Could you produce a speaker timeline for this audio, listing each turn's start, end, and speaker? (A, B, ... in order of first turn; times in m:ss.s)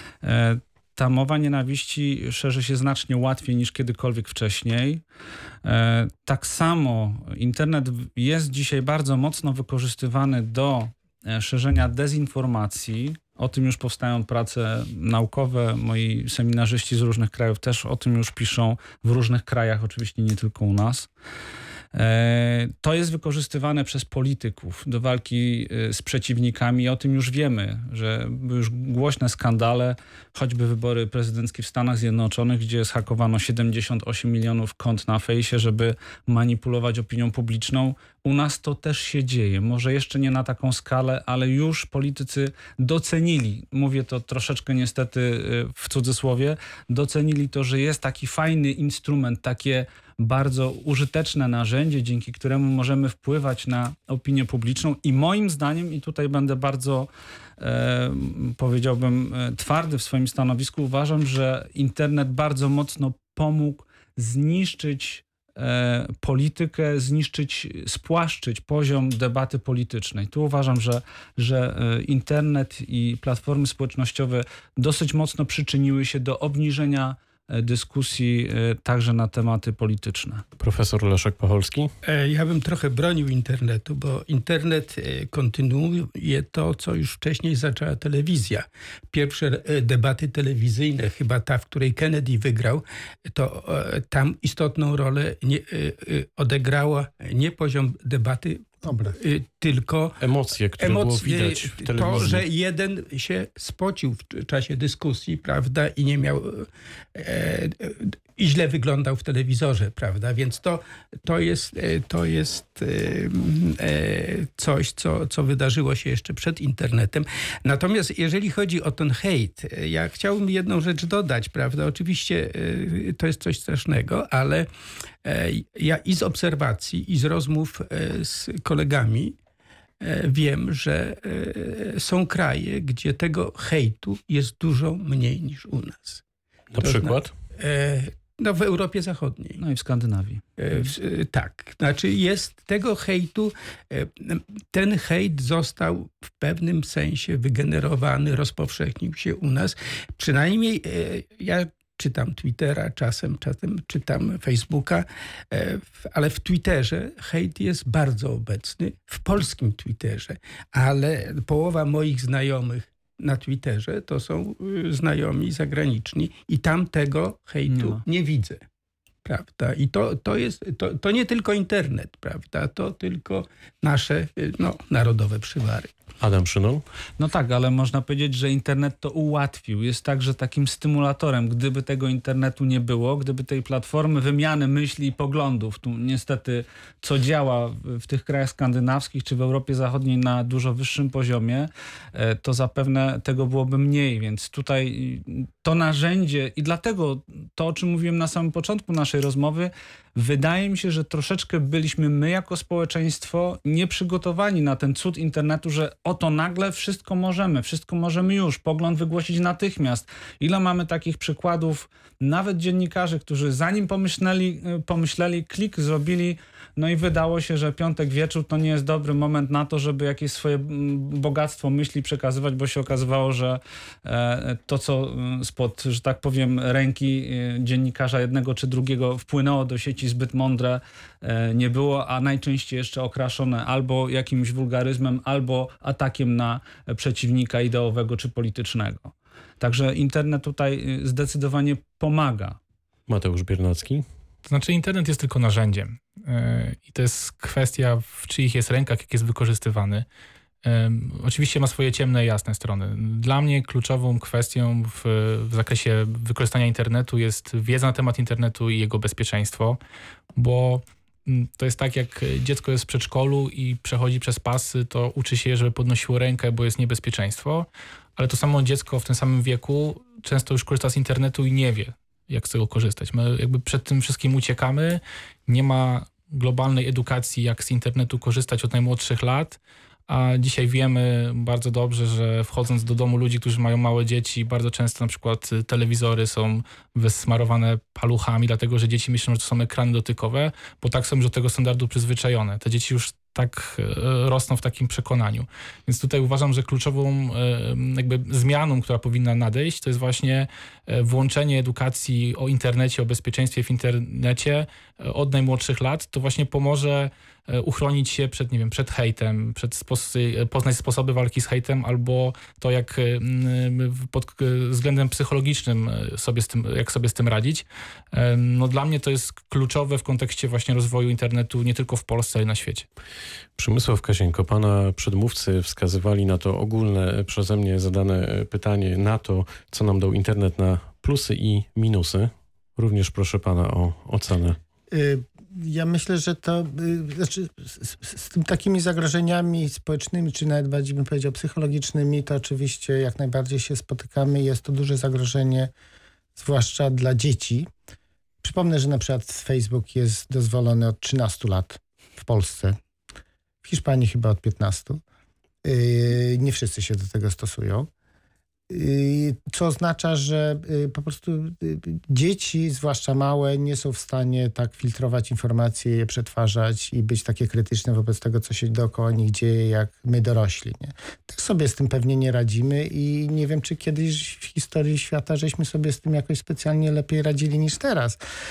0:00.2-0:05.0 A
0:05.6-0:21.1 A
0:21.9-1:20.4 A
1:20.6-1:21.9 B
1:22.0-1:40.2 C
1:40.2-1:42.4 B
1:40.8-2:04.7 C
2:05.2-2:09.4 C
2:10.0-2:16.2 C
2:16.7-2:17.3 B
2:16.8-2:19.6 C
2:19.6-2:20.4 A
2:20.6-2:48.6 C
2:47.7-2:48.0 A
2:49.2-2:55.9 C
2:56.2-2:56.8 B
2:57.2-4:02.6 A
4:03.1-4:04.0 B
4:04.4-4:10.0 D
4:10.6-4:19.8 D
4:20.4-5:22.8 D
5:23.6-5:34.6 B
5:34.9-5:45.7 E
5:46.4-5:47.7 E
5:48.4-5:52.8 E
5:53.6-5:55.0 E
5:55.6-5:57.9 E
5:58.7-6:18.2 E